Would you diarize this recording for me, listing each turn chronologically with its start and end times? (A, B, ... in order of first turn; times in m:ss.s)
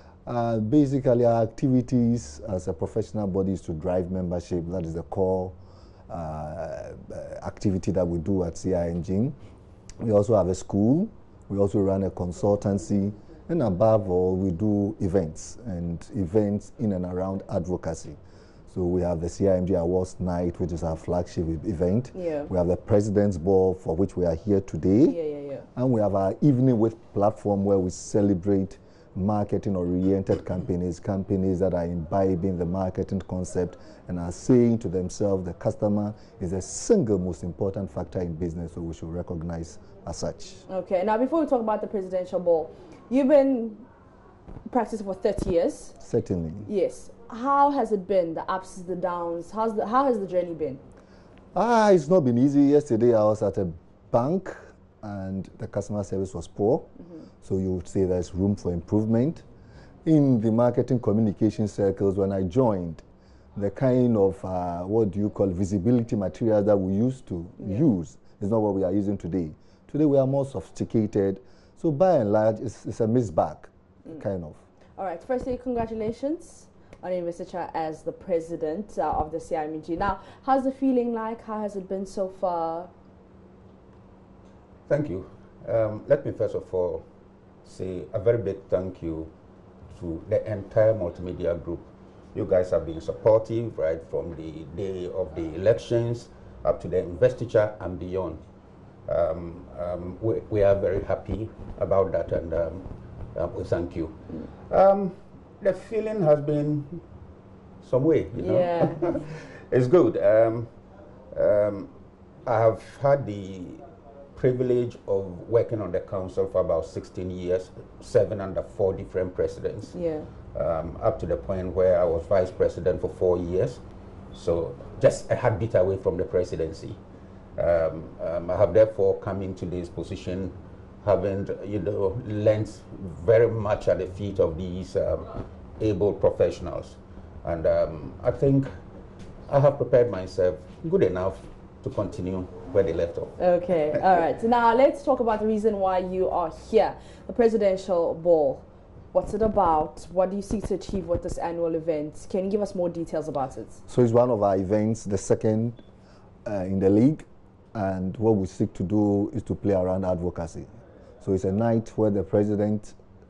0:00.2-0:05.6 A
0:06.1-0:09.4 A
0:10.0-0:25.2 A
0:22.1-0:22.5 B
0:25.0-0:25.6 B
0:25.7-0:40.6 A
0:40.7-0:43.8 B
0:44.7-0:46.0 B
0:46.0-0:46.7 A
0:46.6-0:50.8 B
0:51.5-0:56.9 A
0:57.4-0:59.4 A
1:00.0-1:03.0 A
1:03.6-1:14.6 A
1:07.6-1:07.8 B
1:15.0-1:22.9 B
1:24.9-1:27.0 C
1:27.6-1:29.3 C
1:29.9-1:38.4 C
1:39.1-1:47.0 C
1:47.8-1:50.7 C
1:48.4-1:49.2 B
1:51.3-1:51.9 C
1:52.4-1:53.8 C
1:54.4-1:59.9 C
1:59.9-2:00.3 B
2:00.5-2:03.8 C
2:04.3-2:07.0 C
2:07.6-2:18.7 C
2:19.5-2:23.4 C
2:23.4-2:33.8 B
2:33.9-2:35.8 A
2:36.4-2:40.7 A
2:41.2-2:43.0 A